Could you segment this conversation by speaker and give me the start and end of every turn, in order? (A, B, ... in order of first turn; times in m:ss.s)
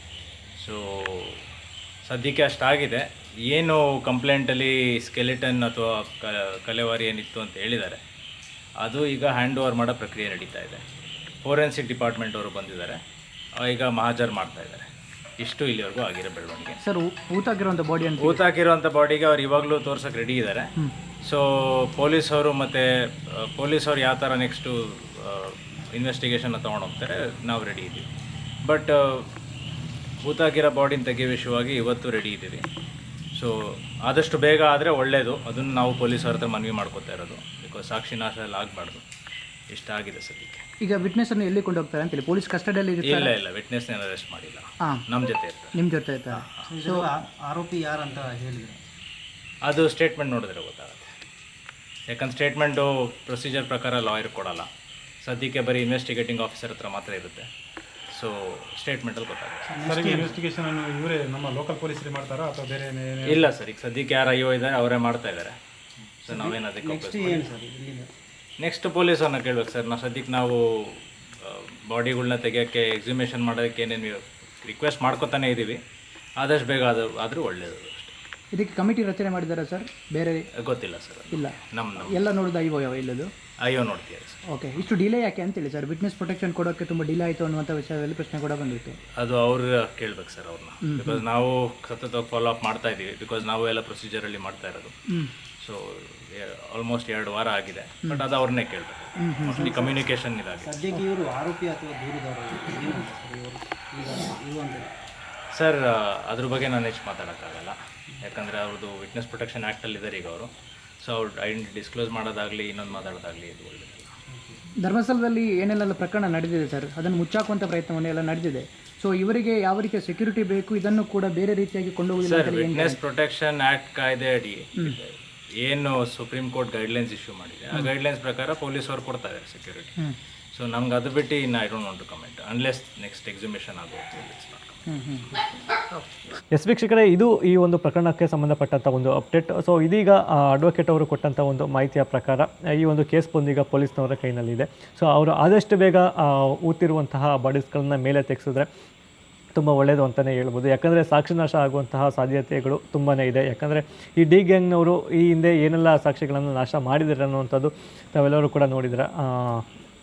0:00.6-0:01.4 A
0:02.0-0:08.0 A
0:08.8-0:10.8 A
0:11.4-0:13.0 A
0:13.6-0:14.9 A
0:15.4-0:16.8 A
0:16.8-0:18.4 B
0:18.2-0:20.7 A
0:21.2-0:28.1 A
0:28.6-0:29.3 A
0:30.2-0:32.6 A
0:34.1-0:39.0 A
0:39.7-0:40.6 A
0:40.8-0:43.3 B
0:43.0-0:45.8 A
0:45.8-0:47.1 B
0:46.6-0:48.8 C
0:49.7-0:51.1 A
0:52.1-0:54.7 A
0:55.2-0:57.5 A
0:58.1-0:59.7 A
0:59.7-1:00.4 C
0:59.8-1:03.5 D
1:03.2-1:05.6 A
1:06.2-1:07.5 A
1:06.3-1:08.1 C
1:08.6-1:15.8 A
1:16.4-1:18.2 A
1:18.5-1:20.4 B
1:20.6-1:22.2 A
1:21.3-1:23.3 B
1:23.6-1:24.4 A
1:24.5-1:29.0 B
1:29.2-1:35.0 A
1:30.8-1:31.2 B
1:35.6-1:40.9 A
1:39.2-1:39.9 B
1:39.7-1:40.0 C
1:40.6-1:44.9 C
1:45.6-1:50.5 A
1:51.0-1:54.1 A
1:54.8-2:03.0 B
2:02.2-2:10.0 A
2:10.5-2:14.9 A
2:14.9-2:15.4 B
2:16.5-2:28.7 E
2:29.6-2:39.6 E